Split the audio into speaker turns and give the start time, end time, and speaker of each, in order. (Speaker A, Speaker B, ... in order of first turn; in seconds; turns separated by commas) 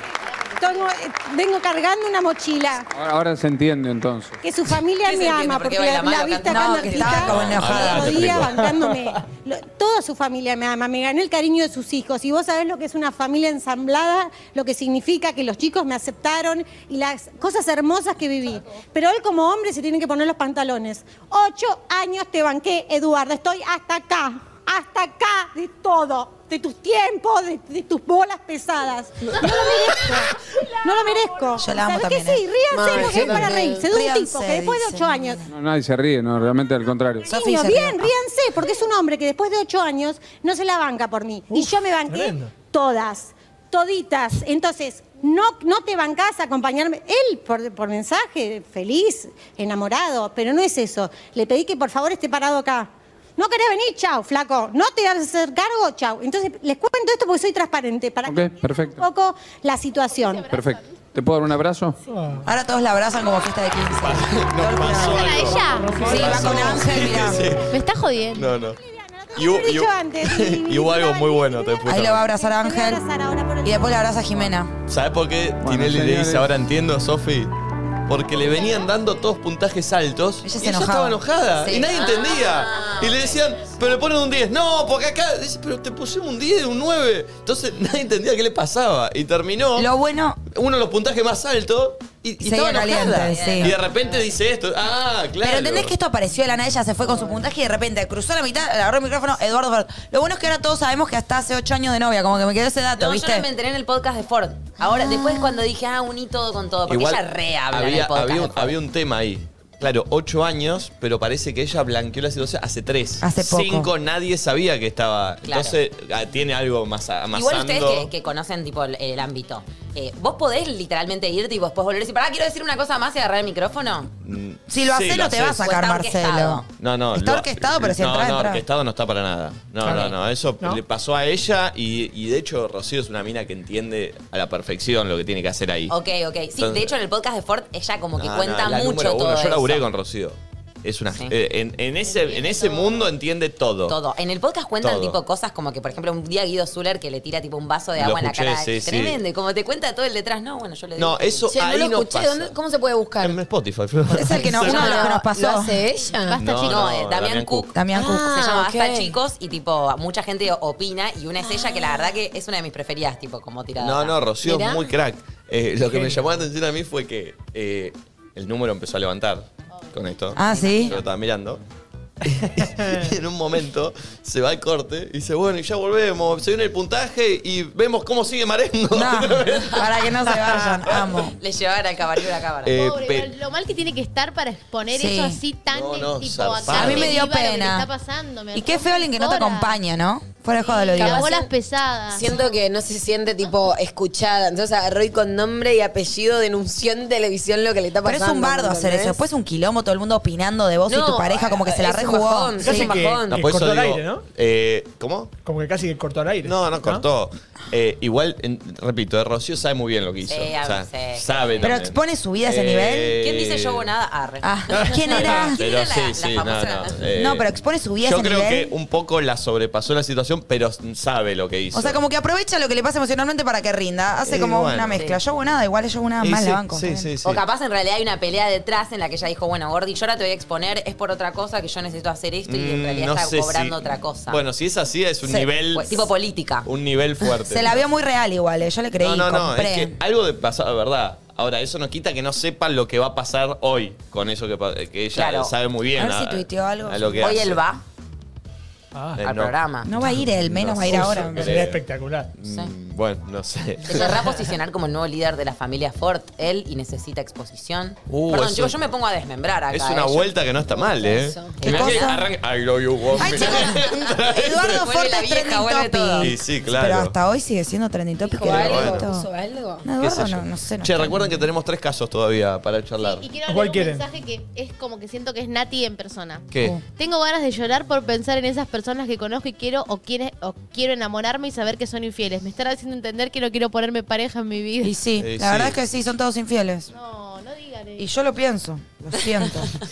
Speaker A: 0.6-2.9, Speaker B: 2.9-4.4, Speaker A: 4.4-35.4, Speaker C: 5.0-7.3, Speaker D: 6.4-8.4, Speaker E: 7.2-8.5, Speaker F: 8.4-8.7, Speaker D: 31.6-32.4, Speaker G: 32.7-33.9, Speaker F: 33.1-33.5, Speaker D: 33.8-35.5, Speaker B: 35.5-37.3, Speaker D: 37.2-38.1, Speaker A: 37.2-60.5, Speaker F: 41.5-42.5, Speaker B: 58.2-59.0, Speaker H: 60.0-61.0, Speaker B: 60.5-62.0, Speaker F: 62.0-62.5, Speaker D: 62.4-65.5, Speaker E: 63.9-65.6, Speaker H: 65.0-66.3, Speaker F: 65.8-66.8, Speaker D: 66.0-67.5, Speaker E: 66.1-67.7, Speaker H: 67.7-68.5, Speaker E: 68.3-68.8, Speaker A: 68.3-74.2, Speaker E: 69.3-72.2, Speaker D: 71.8-73.0, Speaker D: 73.6-74.7, Speaker E: 74.8-77.5, Speaker B: 75.6-76.5, Speaker E: 78.1-89.9, Speaker H: 78.4-79.1, Speaker D: 80.4-81.2, Speaker C: 81.6-83.4, Speaker D: 89.8-90.4, Speaker E: 90.5-95.9, Speaker D: 92.4-93.8, Speaker C: 92.9-94.2, Speaker D: 95.4-103.5, Speaker C: 103.0-108.8, Speaker D: 104.8-105.6, Speaker E: 106.9-118.1, Speaker D: 113.2-113.9, Speaker C: 115.4-115.8, Speaker C: 117.3-124.1, Speaker E: 124.2-125.7, Speaker D: 124.7-128.6, Speaker C: 125.6-126.7, Speaker E: 126.8-135.9, Speaker F: 129.8-130.8, Speaker C: 129.8-130.1, Speaker C: 135.9-139.9, Speaker E: 136.6-136.9, Speaker E: 138.2-144.0, Speaker C: 141.1-141.3, Speaker H: 142.0-143.1, Speaker C: 143.9-151.5, Speaker E: 144.8-145.2, Speaker E: 147.9-149.2, Speaker E: 151.0-152.5, Speaker G: 151.5-153.4, Speaker E: 153.2-155.1, Speaker D: 154.1-155.8, Speaker G: 154.4-156.4, Speaker H: 156.2-156.8, Speaker E: 156.3-157.7, Speaker C: 156.6-164.2, Speaker D: 157.7-158.3, Speaker G: 157.9-159.2, Speaker G: 161.4-162.1, Speaker E: 163.8-171.6, Speaker G: 164.4-164.9, Speaker F: 165.9-166.2, Speaker H: 169.7-170.1, Speaker D: 170.3-171.0, Speaker C: 170.4-171.0, Speaker E: 172.2-181.2, Speaker F: 172.4-173.0, Speaker D: 178.9-181.3, Speaker C: 181.4-182.8, Speaker E: 182.6-183.3, Speaker H: 182.7-189.8, Speaker D: 184.9-185.4, Speaker E: 185.7-187.3, Speaker D: 186.7-187.9, Speaker D: 188.5-191.3, Speaker H: 190.6-192.5, Speaker G: 190.9-191.5, Speaker G: 192.1-199.2, Speaker D: 198.0-202.9, Speaker G: 200.9-203.4, Speaker F: 202.6-204.2, Speaker E: 203.3-205.3, Speaker F: 205.4-207.1, Speaker E: 206.4-213.9, Speaker C: 210.2-211.8, Speaker D: 211.6-213.2, Speaker C: 213.2-216.9, Speaker D: 214.4-215.6, Speaker E: 215.0-222.0, Speaker D: 217.1-218.7, Speaker D: 221.7-227.1, Speaker E: 224.2-225.1, Speaker C: 224.9-225.2, Speaker E: 226.2-227.4, Speaker C: 227.2-234.4, Speaker E: 232.5-236.1, Speaker D: 235.2-235.5, Speaker C: 235.7-236.7, Speaker E: 236.6-237.8, Speaker D: 237.4-239.9, Speaker E: 239.0-247.6, Speaker C: 245.1-245.5, Speaker D: 245.9-247.5, Speaker C: 247.2-247.8, Speaker F: 248.9-249.2, Speaker E: 249.2-249.6, Speaker C: 249.2-249.9, Speaker D: 249.8-251.6, Speaker F: 250.0-250.3, Speaker E: 250.1-254.3, Speaker F: 250.8-252.3, Speaker C: 252.4-252.7, Speaker C: 253.8-260.3, Speaker E: 258.1-258.8, Speaker E: 259.7-264.9, Speaker G: 260.6-261.6, Speaker C: 261.6-262.1, Speaker D: 261.6-262.3, Speaker D: 263.1-269.3, Speaker C: 263.2-266.4, Speaker E: 266.2-267.2, Speaker G: 268.2-269.9, Speaker E: 268.4-269.1, Speaker D: 269.8-271.4, Speaker E: 270.0-273.3, Speaker H: 273.0-284.9, Speaker F: 273.4-274.1, Speaker E: 276.5-276.8, Speaker D: 276.6-276.8, Speaker D: 284.8-286.9, Speaker E: 285.1-285.8, Speaker H: 286.9-288.1, Speaker D: 288.0-289.7